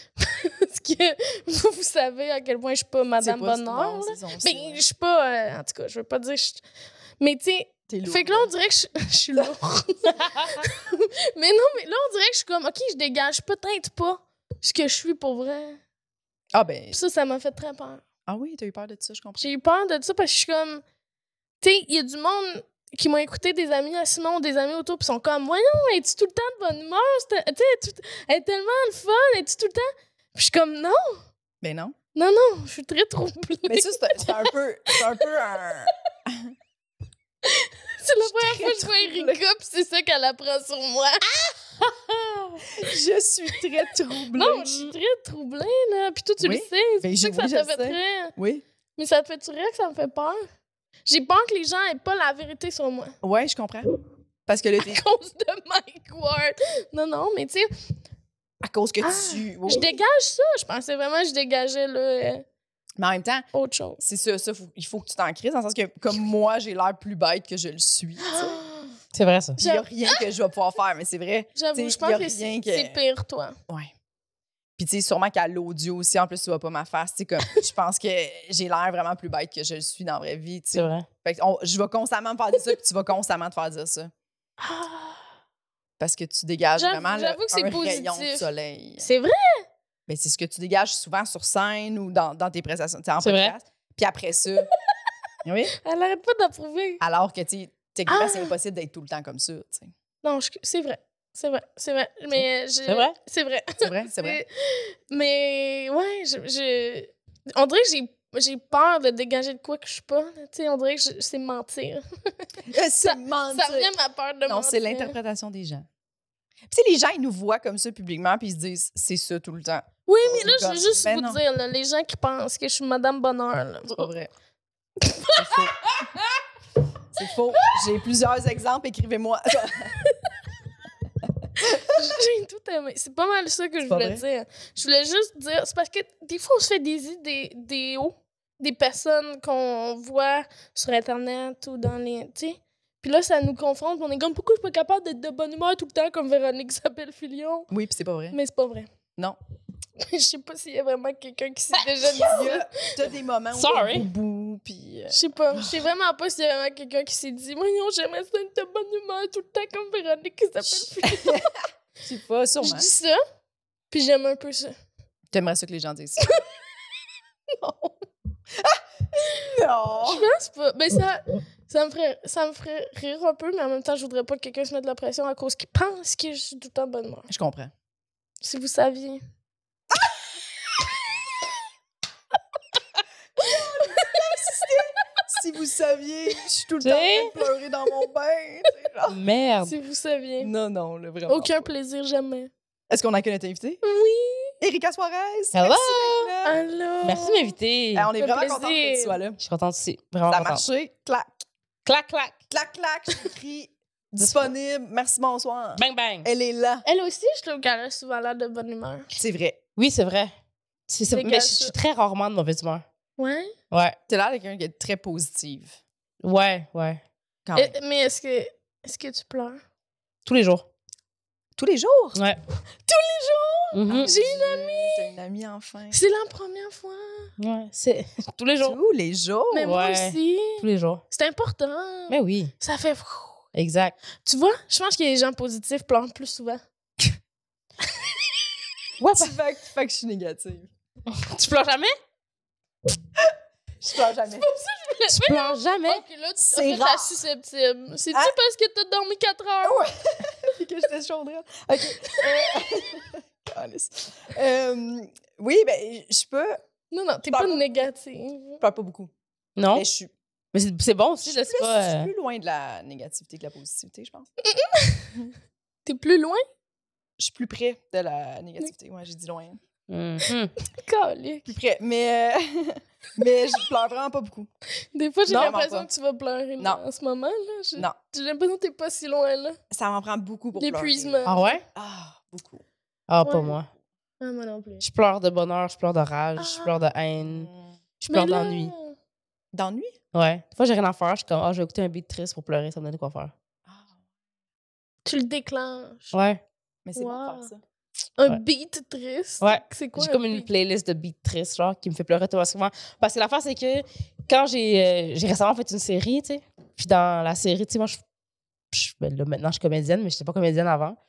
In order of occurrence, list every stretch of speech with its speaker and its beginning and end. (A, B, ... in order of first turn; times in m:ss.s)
0:00.2-0:06.6 A
0:03.2-0:04.8 B
0:07.2-0:15.8 A
0:07.9-0:08.5 B
0:16.5-0:17.0 B
0:16.9-0:18.0 A
0:18.3-0:19.5 B
0:19.4-0:20.8 A
0:21.6-0:31.2 A
0:31.6-0:31.9 B
0:32.1-0:35.0 A
0:33.7-0:36.5 B
0:37.4-0:41.3 A
0:38.2-0:39.4 B
0:42.7-0:44.9 B
0:44.3-0:48.3 A
0:46.4-0:48.6 B
0:49.0-0:50.4 A
0:51.0-0:53.2 A
0:53.2-0:53.9 B
0:54.5-0:55.0 B
0:54.8-0:57.7 A
0:58.6-1:00.0 B
0:59.0-1:02.4 A
1:03.0-1:03.4 B
1:03.5-1:04.0 A
1:04.0-1:08.6 B
1:08.2-1:08.9 A
1:09.1-1:09.6 C
1:09.6-1:13.0 B
1:09.6-1:10.2 A
1:11.6-1:13.6 A
1:14.8-1:24.1 B
1:20.7-1:21.0 C
1:24.6-1:25.2 A
1:26.0-1:29.1 B
1:26.8-1:28.5 A
1:29.0-1:29.7 A
1:30.1-1:34.7 B
1:33.2-1:33.5 C
1:35.4-1:35.7 B
1:35.7-1:37.0 A
1:37.0-1:39.9 B
1:38.1-1:38.5 A
1:40.2-1:52.5 A
1:42.9-1:43.1 C
1:43.8-1:44.4 B
1:52.7-1:53.9 B
1:53.0-1:55.2 A
1:54.5-1:55.9 B
1:56.7-2:01.4 B
2:00.1-2:04.0 A
2:03.9-2:04.3 B
2:05.0-2:06.2 A
2:05.3-2:06.0 B
2:07.1-2:10.0 B
2:09.9-2:10.3 A
2:11.6-2:11.9 B
2:11.7-2:27.7 A
2:13.8-2:14.2 B
2:27.7-2:28.4 B
2:28.3-2:28.9 A
2:30.0-2:32.9 A
2:32.2-2:35.8 B
2:33.5-2:34.1 C
2:35.1-2:41.5 A
2:41.0-2:42.9 B
2:42.6-2:43.2 A
2:43.9-2:44.8 A
2:45.3-2:46.2 B
2:47.5-2:48.0 A
2:48.5-2:50.3 B
2:50.0-2:57.3 A
2:57.3-2:57.7 B
2:58.4-2:59.2 A
3:03.4-3:09.2 B
3:03.4-3:04.7 A
3:06.8-3:07.3 C
3:09.1-3:09.7 C
3:09.6-3:10.5 A
3:10.4-3:11.7 B
3:11.3-3:12.5 A
3:12.9-3:13.8 B
3:13.8-3:14.5 A
3:14.6-3:16.6 B
3:15.5-3:16.3 C
3:16.4-3:17.5 A
3:17.0-3:18.1 C
3:17.9-3:19.4 B
3:18.2-3:19.2 A
3:19.4-3:20.6 C
3:20.3-3:21.3 B
3:21.8-3:22.4 C
3:22.5-3:26.8 B
3:24.2-3:24.5 C
3:25.8-3:26.3 C
3:26.8-3:29.1 A
3:29.1-3:29.6 B
3:29.8-3:30.3 C
3:30.9-3:32.8 C
3:31.1-3:31.7 A
3:33.2-3:33.5 A
3:33.7-3:34.0 C
3:34.1-3:35.8 B
3:36.2-3:37.0 C
3:37.4-3:37.7 B
3:37.5-3:39.6 A
3:40.2-3:40.6 C
3:41.6-3:42.2 B
3:42.8-3:45.1 A
3:43.7-3:44.1 C
3:43.9-3:46.0 B
3:45.9-3:47.3 A
3:47.4-3:48.8 C
3:48.6-3:49.7 B
3:49.5-3:53.4 A
3:49.6-3:51.0 C
3:52.1-3:52.5 C
3:53.5-3:54.0 C
3:54.2-3:56.6 A
3:59.0-3:59.3 C
3:59.1-4:00.7 B
4:01.1-4:01.9 C
4:03.8-4:04.4 B
4:04.4-4:09.9 A
4:05.1-4:06.0 C
4:06.4-4:07.2 B
4:09.6-4:16.6 B
4:16.9-4:18.6 A
4:17.3-4:17.8 B
4:18.6-4:19.1 B
4:19.6-4:19.8 C
4:19.7-4:20.1 B
4:20.5-4:22.1 C
4:21.2-4:24.3 B
4:24.4-4:25.1 A
4:25.8-4:26.4 A
4:27.2-4:29.6 B
4:29.9-4:30.5 C
4:30.7-4:31.5 A
4:31.5-4:34.5 B
4:34.9-4:39.6 A
4:35.3-4:35.9 B
4:39.7-4:42.6 B
4:40.6-4:41.6 A
4:41.2-4:41.6 C
4:43.1-4:43.7 C
4:43.2-4:43.6 A
4:44.2-4:44.9 A
4:44.8-4:47.5 C
4:46.4-4:46.7 A
4:47.2-4:47.7 B
4:48.0-4:48.7 C
4:48.1-4:48.9 A
4:49.5-4:50.0 B
4:50.1-4:53.3 C
4:53.7-4:53.9 B
4:55.0-4:56.2 A
4:56.1-4:56.4 C
4:56.8-4:57.6 B
4:57.0-4:57.5 A
4:58.2-5:00.5 A
4:59.4-5:08.0 C
5:08.7-5:11.0 C